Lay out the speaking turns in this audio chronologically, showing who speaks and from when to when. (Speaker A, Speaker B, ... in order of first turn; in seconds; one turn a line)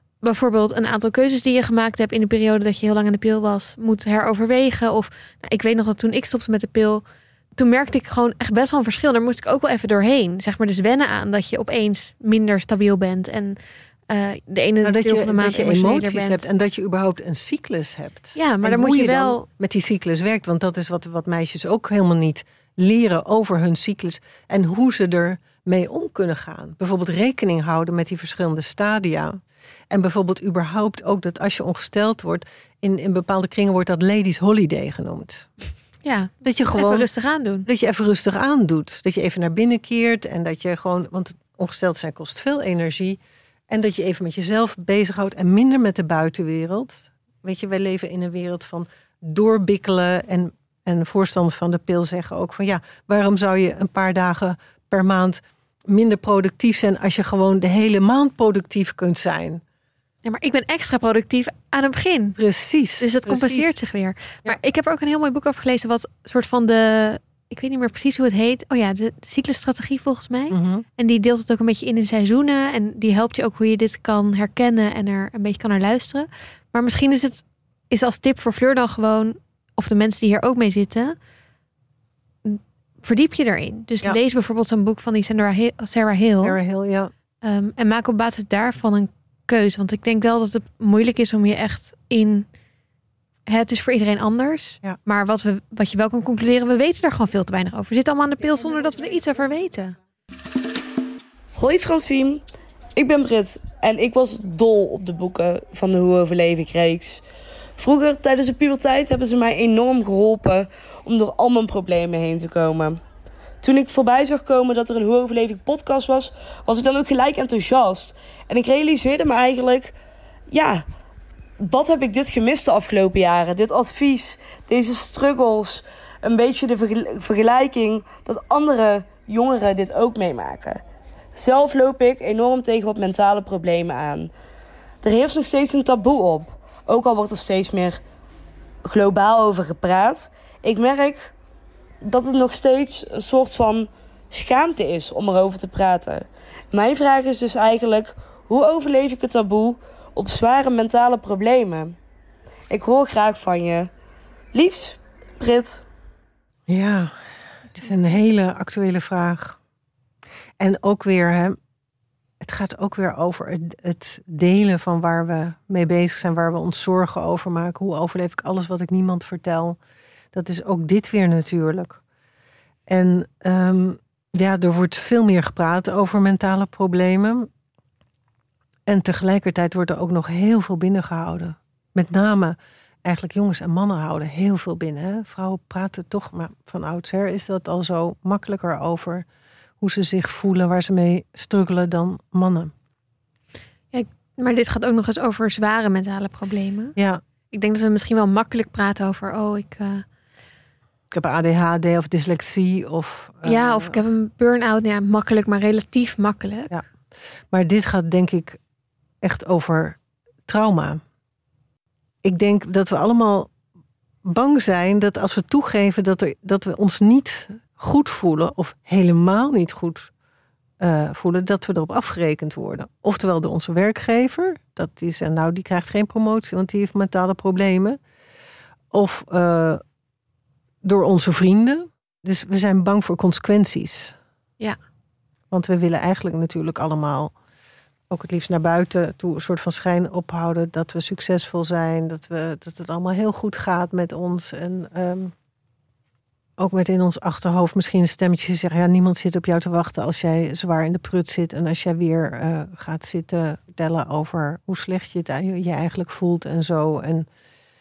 Speaker A: 0.2-7.0
Speaker A: 7.6-16.4
Speaker B: 14.8-29.4
Speaker A: 18.4-19.5
Speaker B: 29.9-35.5
Speaker A: 36.0-37.7
Speaker B: 36.4-37.0
Speaker B: 37.7-43.2
Speaker B: 43.7-59.6
Speaker A: 60.2-62.4
Speaker B: 62.4-63.8
Speaker A: 63.0-81.2
Speaker B: 70.5-70.8
Speaker A: 82.5-86.6
Speaker B: 86.4-87.1
Speaker A: 87.4-92.5
Speaker A: 93.5-100.0
Speaker C: 101.5-102.4
Speaker C: 103.0-107.2
Speaker C: 107.8-113.0
Speaker C: 113.6-120.0
Speaker C: 120.5-120.8
Speaker C: 121.6-130.8
Speaker C: 131.3-134.3
Speaker C: 135.0-138.0
Speaker C: 138.8-141.3
Speaker C: 142.0-152.0
Speaker C: 152.7-153.9
Speaker C: 154.5-155.8
Speaker B: 156.7-157.1
Speaker B: 157.8-159.6
Speaker B: 160.6-161.6
Speaker B: 162.4-169.8
Speaker B: 170.3-172.0
Speaker B: 172.9-177.5
Speaker B: 178.9-189.2
Speaker B: 189.8-192.7
Speaker A: 193.9-196.9
Speaker A: 197.5-200.1
Speaker B: 201.1-204.0
Speaker A: 203.4-206.7
Speaker B: 207.5-208.6
Speaker B: 209.2-211.0
Speaker B: 212.2-213.5
Speaker B: 214.3-220.1
Speaker B: 220.8-228.0
Speaker B: 228.9-229.8
Speaker B: 230.8-234.2
Speaker B: 235.5-237.3
Speaker B: 238.1-245.3
Speaker B: 246.6-257.3